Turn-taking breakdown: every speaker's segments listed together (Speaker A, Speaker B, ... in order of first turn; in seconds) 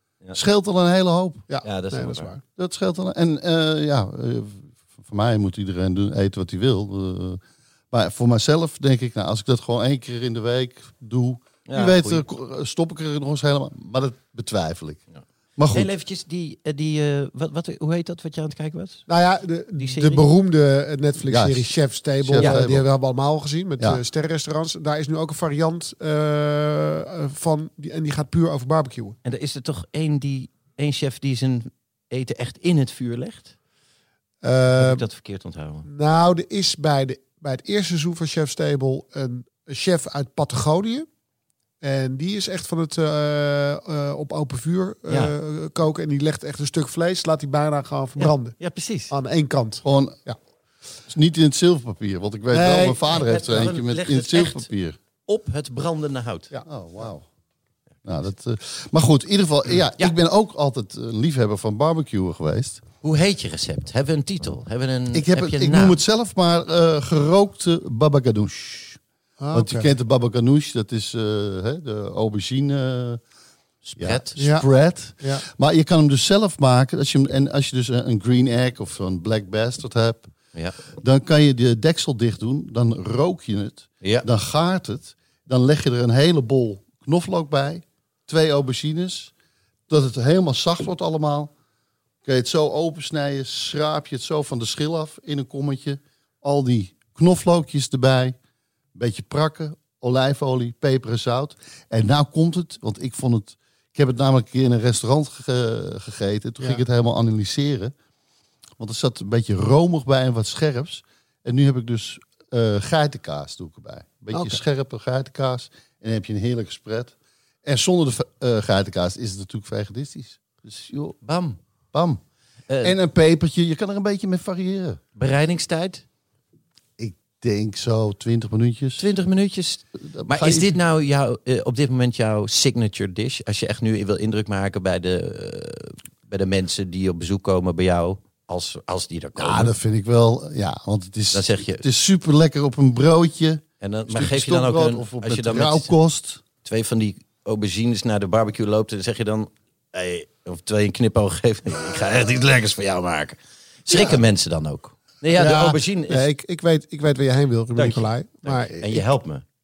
Speaker A: 0.3-1.4, 2.6-15.0, 15.6-15.9, 21.3-22.9, 49.8-50.2, 51.1-55.0, 56.6-57.2, 58.0-62.8, 65.1-69.0, 69.5-73.2, 74.0-80.3, 81.0-89.3, 89.9-91.5, 92.2-98.3, 98.9-107.9, 108.8-117.1, 117.6-120.4, 121.9-122.2, 122.8-125.0, 127.0-129.1, 130.0-130.8, 139.4-146.4
Speaker B: 1.5-2.4, 19.1-29.1, 34.4-35.0, 35.9-41.1, 41.8-48.6, 49.1-50.4, 52.5-53.0, 69.4-69.9, 74.4-74.7, 75.2-75.4, 114.3-114.6, 155.3-159.0
Speaker C: 1.6-2.3, 11.7-12.2, 15.7-19.1, 19.8-20.3, 22.4-22.6, 29.2-33.5, 34.8-35.9, 45.1-45.3, 48.2-49.1, 53.1-54.7, 55.2-56.5, 63.0-66.0, 73.8-74.4, 84.0-84.3, 120.7-121.6, 122.7-123.0, 125.2-126.0, 129.0-139.7, 141.3-141.8, 143.8-145.9, 146.6-156.3, 157.8-159.4